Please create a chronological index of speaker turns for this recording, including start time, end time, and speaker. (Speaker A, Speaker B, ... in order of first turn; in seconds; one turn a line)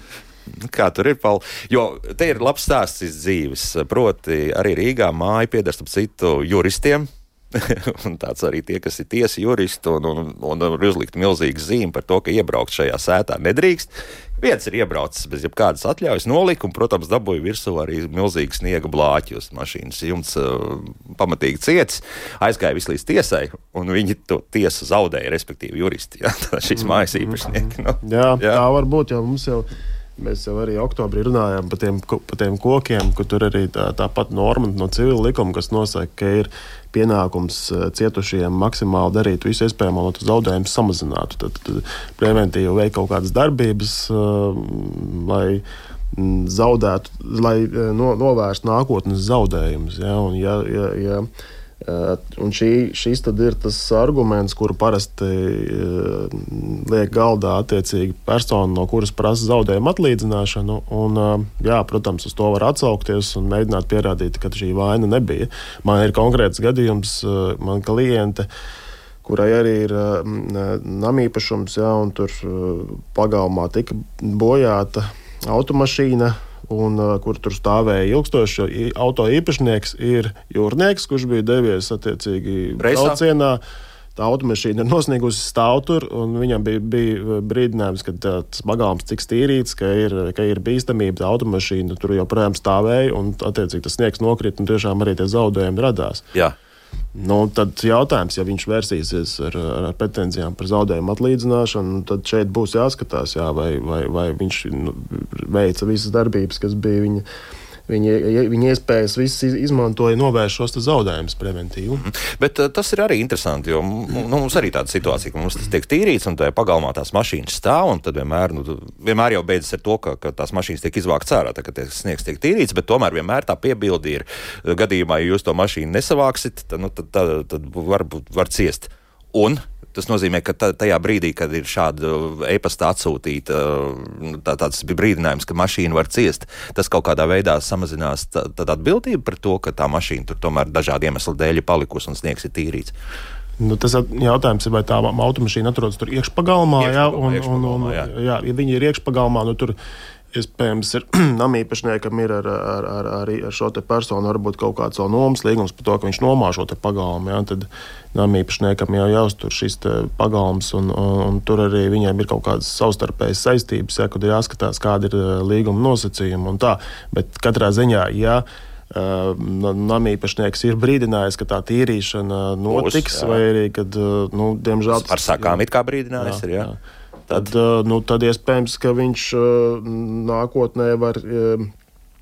Speaker A: 0.5-28.6
Speaker B: 26.8-27.4
Speaker B: 28.0-51.3
Speaker B: 51.8-68.5
Speaker B: 69.2-83.6
Speaker A: 82.8-83.2
Speaker B: 84.2-96.2
Speaker B: 97.2-107.2
Speaker B: 107.9-112.1
Speaker A: 112.0-142.9
Speaker B: 143.6-149.8
Speaker A: 146.8-148.1
Speaker B: 150.3-175.6
Speaker A: 172.7-173.4
Speaker A: 174.9-176.7
Speaker B: 176.2-176.8
Speaker B: 177.3-181.7